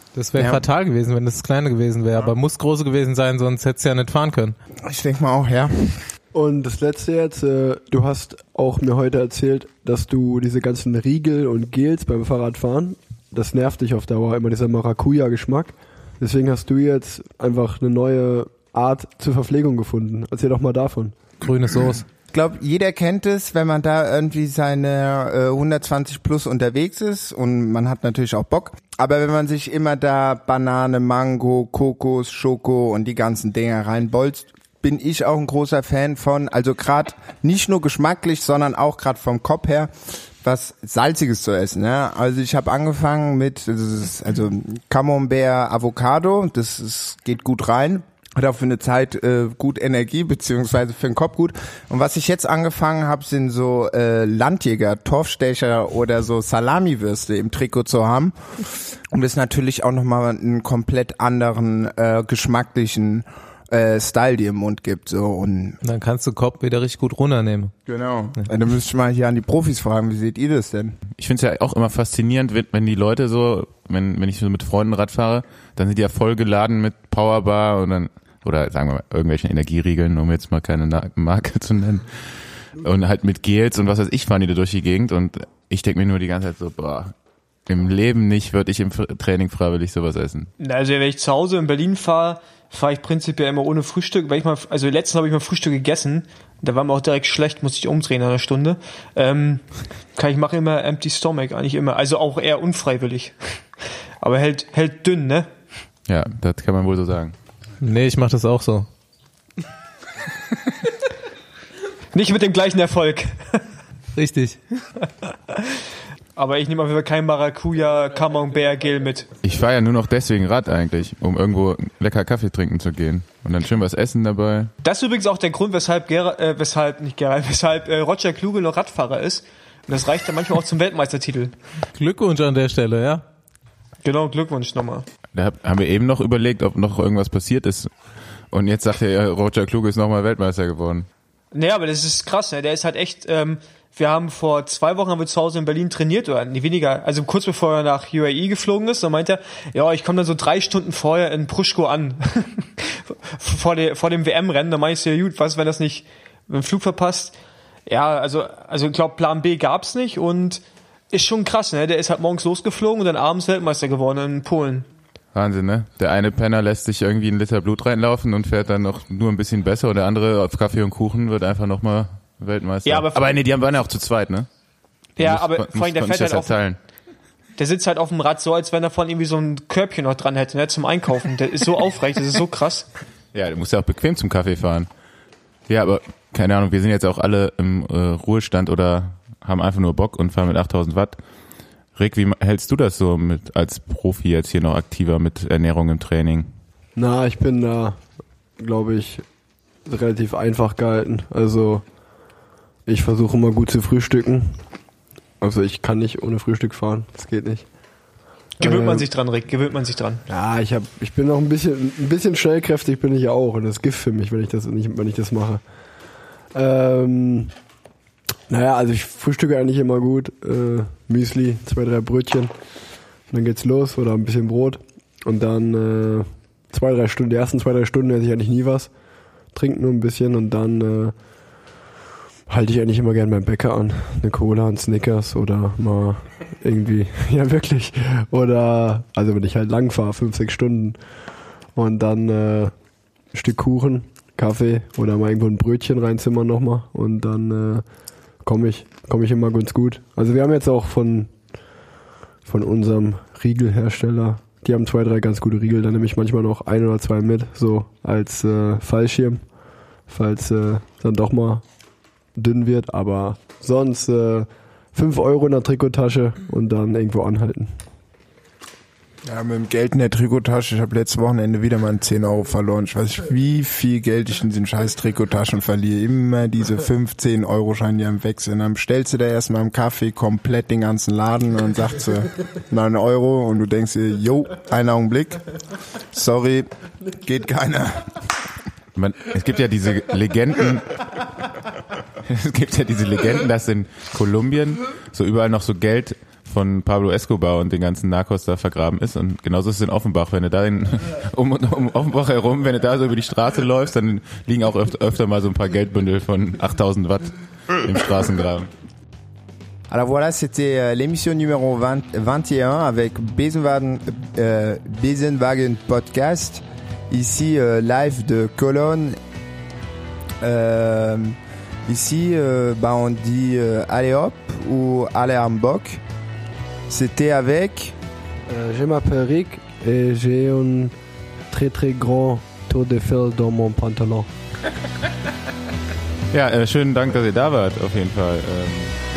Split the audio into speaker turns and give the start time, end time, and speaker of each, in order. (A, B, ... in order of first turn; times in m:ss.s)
0:00.2-0:04.6 A
0:00.4-0:00.6 B
0:04.8-0:06.1 B
0:06.3-0:21.2 C
0:21.4-0:22.0 A
0:22.3-1:05.8 B
1:05.8-1:07.7 A
1:07.9-1:11.0 B
1:11.2-1:22.1 D
1:22.8-1:27.1 D
1:27.7-1:30.5 D
1:30.6-1:45.5 E
1:46.1-1:47.3 D
1:47.8-1:48.9 A
1:52.1-1:53.6 E
1:54.2-1:54.6 A
1:55.5-1:55.8 E
1:56.4-1:59.3 E
1:59.4-2:04.7 D
2:04.8-2:11.6 E
2:12.0-2:13.2 A
2:14.0-2:15.1 E
2:15.3-2:17.9 D
2:18.5-2:21.1 D
2:21.5-2:37.3 E
2:37.9-2:44.9 E
2:45.3-2:54.5 D
2:52.8-2:53.4 E
2:55.2-2:56.8 D
2:55.2-2:56.6 E
2:57.6-3:02.9 E
3:03.3-3:04.9 D
3:05.7-3:11.2 D
3:12.0-3:16.5 D
3:17.0-3:18.0 C
3:18.6-3:19.2 C
3:19.8-3:21.8 C
3:22.9-3:24.6 C
3:25.4-3:27.7 C
3:28.6-3:30.2 E
3:28.6-3:29.1 C
3:30.3-3:35.6 C
3:36.5-3:37.5 C
3:38.5-3:42.5 C
3:43.3-3:48.9 C
3:49.5-3:51.1 C
3:52.5-4:01.0 C
4:01.8-4:02.7 C
4:03.3-4:07.8 C
4:08.4-4:11.3 C
4:12.4-4:19.4 C
4:20.1-4:21.6 C
4:22.4-4:27.8 C
4:29.2-4:45.4 B
4:46.1-4:48.2 B
4:49.0-4:51.2 D
4:52.2-5:08.7 D
5:09.9-5:19.2 B
5:20.4-5:26.0 B
5:26.9-5:28.0 B
5:28.5-5:31.0 C
5:31.5-5:34.3 C
5:36.3-5:39.0 D